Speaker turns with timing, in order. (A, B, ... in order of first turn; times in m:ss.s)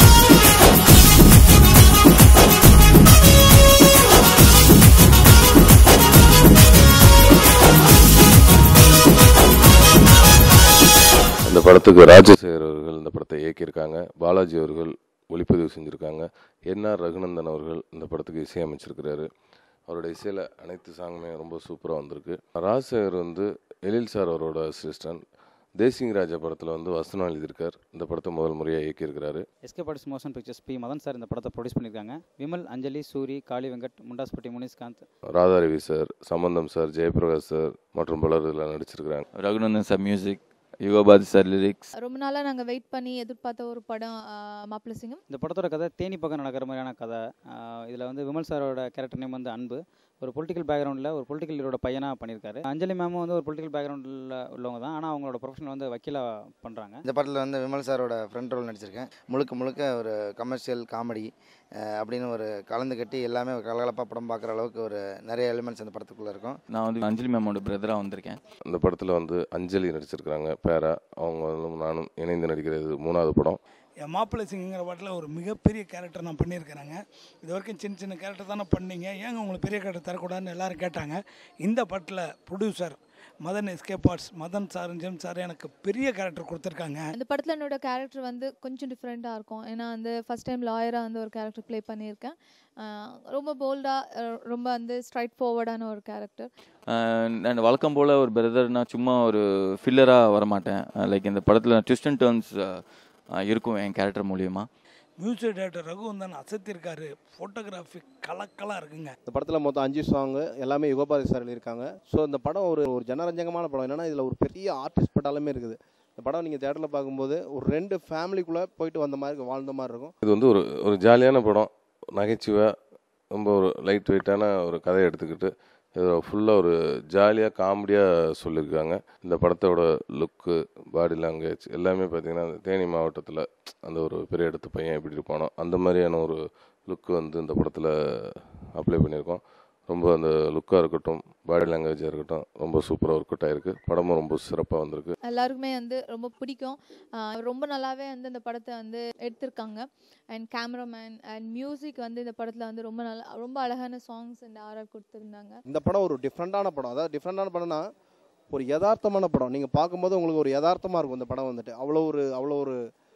0:11.4-0:19.3 A
0:19.9-0:25.2 A
0:25.8-0:29.4 A
0:29.6-0:35.1 B
0:35.3-0:39.2 A
0:39.4-0:41.9 C
0:42.0-0:45.2 D
0:45.3-0:57.0 B
0:57.1-1:01.3 E
1:01.8-1:06.6 E
1:06.7-1:08.4 C
1:08.7-1:13.6 A
1:14.0-1:27.0 F
1:27.2-1:36.5 D
1:36.9-1:42.8 C
1:43.4-1:44.6 C
1:45.2-1:49.2 F
1:49.3-2:00.1 G
2:00.2-2:02.7 A
2:03.3-2:25.1 A
2:25.2-2:35.6 D
2:35.7-2:37.8 G
2:38.5-2:42.8 G